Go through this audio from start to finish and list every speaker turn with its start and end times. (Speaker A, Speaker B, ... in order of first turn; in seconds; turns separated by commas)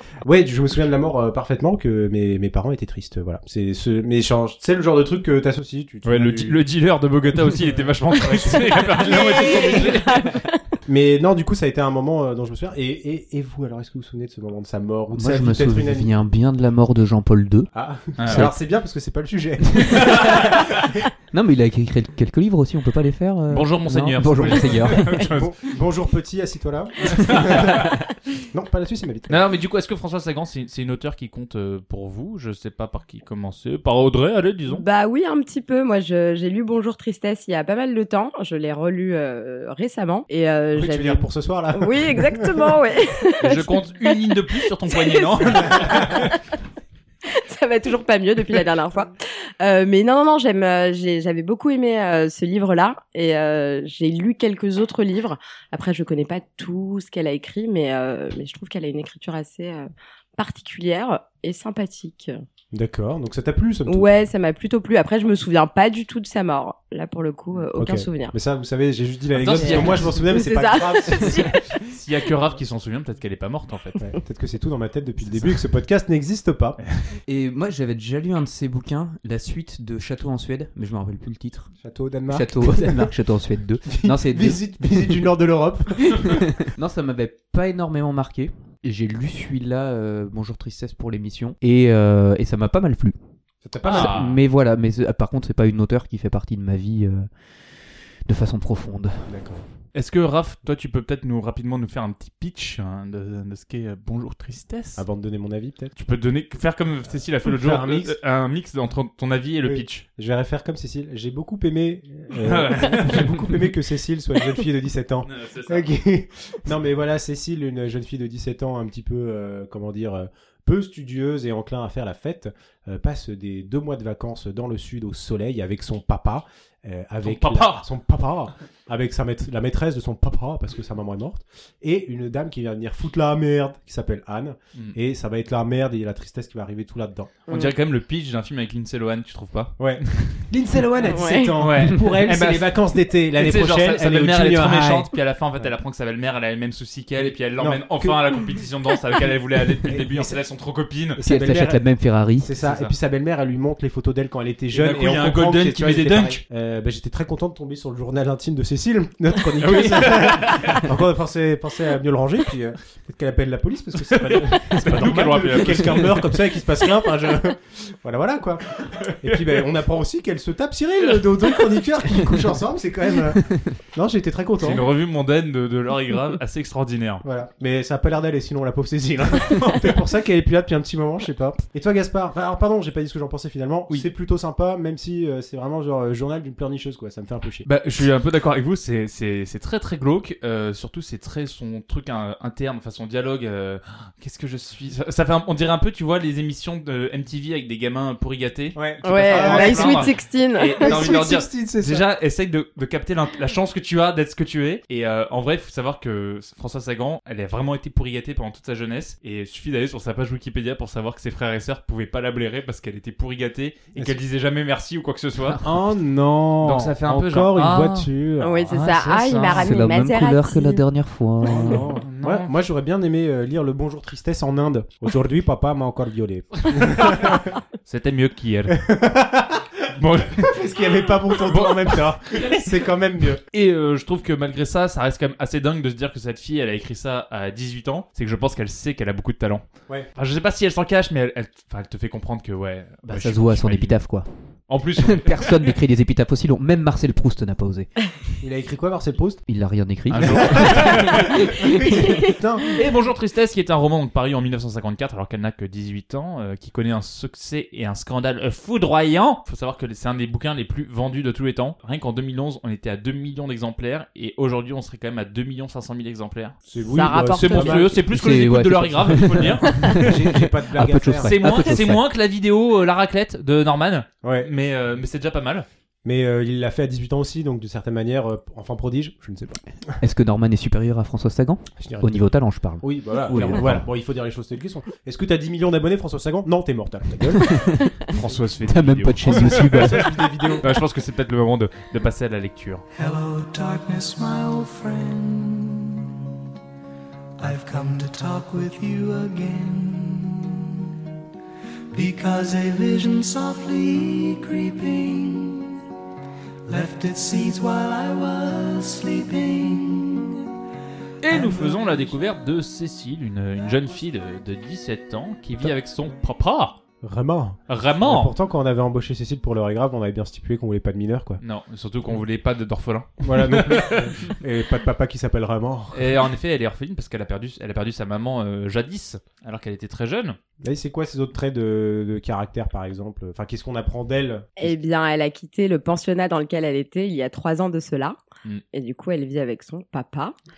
Speaker A: 0.2-6.6, Speaker B: 6.0-10.3, Speaker A: 8.1-10.1, Speaker C: 8.7-10.4, Speaker A: 10.9-16.1, Speaker D: 15.1-17.7, Speaker A: 17.7-21.0, Speaker B: 18.2-18.5, Speaker D: 18.3-18.6, Speaker B: 19.9-20.5, Speaker D: 21.3-25.1, Speaker B: 23.5-25.5, Speaker A: 24.4-27.9, Speaker B: 27.1-27.9, Speaker A: 28.5-29.5, Speaker B: 29.3-34.9, Speaker C: 34.7-41.2, Speaker A: 40.7-42.8, Speaker C: 41.8-44.2, Speaker B: 43.4-46.3, Speaker C: 44.9-46.4, Speaker A: 45.7-46.2, Speaker C: 47.3-62.4, Speaker A: 62.7-64.1, Speaker C: 63.9-68.3, Speaker A: 67.8-71.6, Speaker B: 69.3-70.2, Speaker C: 69.6-71.6, Speaker B: 71.9-74.0, Speaker A: 74.0-76.8, Speaker D: 77.3-81.7, Speaker A: 81.8-83.1, Speaker D: 82.3-84.6, Speaker A: 83.9-86.4, Speaker D: 86.2-93.2, Speaker A: 93.6-94.2, Speaker B: 93.9-94.4, Speaker D: 93.9-97.3, Speaker D: 98.3-99.3, Speaker A: 99.3-99.6, Speaker B: 99.9-105.0, Speaker A: 105.0-106.0, Speaker B: 106.0-110.0, Speaker A: 107.5-108.2, Speaker A: 109.6-137.3, Speaker B: 112.4-113.6, Speaker B: 115.2-115.9, Speaker B: 127.2-127.8, Speaker B: 137.5-140.5, Speaker A: 139.8-145.7, Speaker C: 141.1-141.6, Speaker B: 141.6-142.8, Speaker B: 143.3-151.2, Speaker A: 147.2-148.4, Speaker A: 149.8-150.4, Speaker A: 151.2-151.8, Speaker D: 151.2-152.5, Speaker A: 152.4-174.8, Speaker B: 152.6-152.9, Speaker B: 154.7-156.4, Speaker B: 159.6-160.9, Speaker B: 164.0-166.4, Speaker B: 169.0-169.6, Speaker B: 171.2-171.6, Speaker B: 174.6-177.2, Speaker A: 177.2-187.7, Speaker B: 187.7-215.7, Speaker A: 198.8-200.1, Speaker C: 199.0-201.0, Speaker A: 200.8-202.1, Speaker A: 215.6-218.8, Speaker B: 216.6-218.1, Speaker C: 218.4-220.8, Speaker B: 218.7-219.8, Speaker D: 219.6-221.8, Speaker A: 221.4-227.5, Speaker B: 221.5-222.5, Speaker B: 226.6-228.8, Speaker A: 228.7-229.7, Speaker B: 230.0-230.6, Speaker A: 230.3-233.4, Speaker B: 231.4-232.7, Speaker B: 233.5-239.7, Speaker B: 240.2-244.0, Speaker D: 243.1-244.3, Speaker B: 244.7-245.8, Speaker D: 245.0-247.9, Speaker A: 248.4-249.4, Speaker D: 249.5-251.4, Speaker B: 250.1-251.3, Speaker A: 250.2-252.8, Speaker B: 252.7-266.6, Speaker A: 266.7-268.1, Speaker C: 266.9-268.0, Speaker B: 267.3-270.0, Speaker D: 268.1-272.0, Speaker A: 269.7-271.4, Speaker B: 271.2-275.7, Speaker A: 274.2-274.5, Speaker A: 276.0-279.6, Speaker D: 280.0-283.8, Speaker A: 281.8-282.2, Speaker A: 282.8-288.4, Speaker D: 287.4-287.9, Speaker B: 288.1-292.8, Speaker D: 288.7-290.1, Speaker A: 289.3-290.8, Speaker E: 292.9-296.1, Speaker E: 297.4-300.6, Speaker E: 301.9-305.7, Speaker E: 306.7-310.3, Speaker B: 311.2-316.8, Speaker A: 311.3-311.8, Speaker A: 317.0-321.4, Speaker B: 317.7-318.3, Speaker B: 321.4-324.3, Speaker A: 323.2-326.2, Speaker B: 325.9-330.4, Speaker A: 330.6-334.8, Speaker C: 334.6-338.2, Speaker C: 338.7-340.4